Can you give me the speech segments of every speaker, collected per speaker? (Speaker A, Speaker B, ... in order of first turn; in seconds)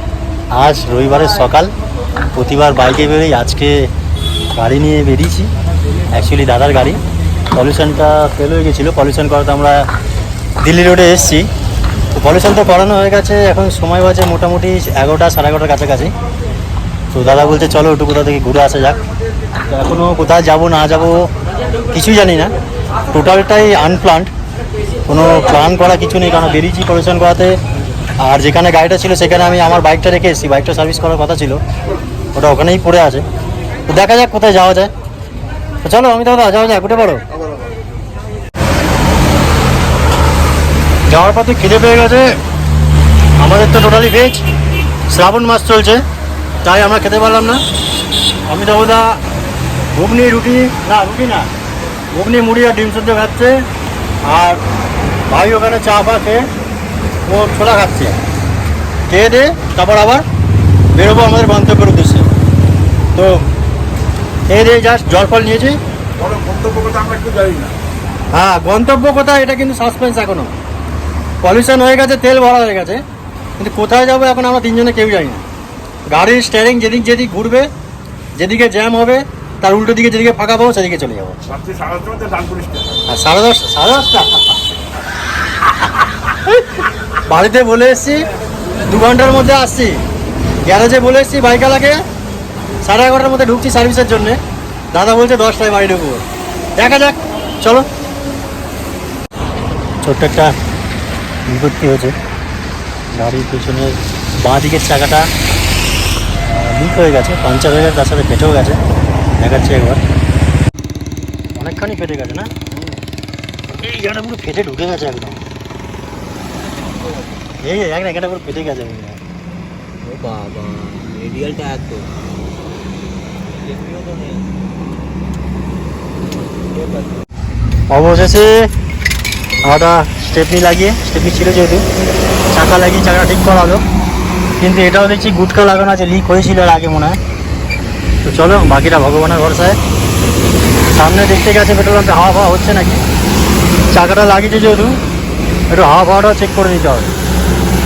Speaker A: 0.5-1.7, 2.3-3.9, 4.5-5.5, 6.1-7.0, 7.5-9.9, 10.6-11.5, 12.1-16.1, 17.1-19.0, 19.7-21.2, 21.9-22.5, 23.1-24.3, 25.1-27.6, 28.2-31.6, 32.3-33.2, 33.9-34.9, 35.8-37.2, 41.1-42.4, 43.4-44.4, 45.1-46.0, 46.6-47.6, 48.5-49.2, 49.9-51.5, 52.1-53.6, 54.3-54.6, 55.3-56.5, 57.2-58.2, 59.1-60.2, 60.9-62.3, 63.1-63.5, 64.5-65.8, 68.3-70.5, 71.4-73.0, 73.6-75.4, 76.1-77.7, 78.3-81.4, 83.1-84.5, 86.3-86.5, 87.2-88.2, 88.8-90.0, 90.7-92.0, 92.8-94.4, 94.9-96.2, 96.8-97.9, 100.0-100.5, 101.5-102.2, 103.1-105.3, 106.5-108.8, 109.4-110.0, 111.5-112.5, 113.7-115.4, 117.6-119.2, 127.9-128.7, 129.6-131.8, 132.5-133.8, 134.6-137.2, 138.2-139.8, 140.9-143.1, 143.9-145.0, 145.7-147.1
Speaker B: 66.2-67.8, 81.5-82.9
Speaker C: 117.0-117.3, 120.0-122.1, 123.5-124.5, 126.7-127.2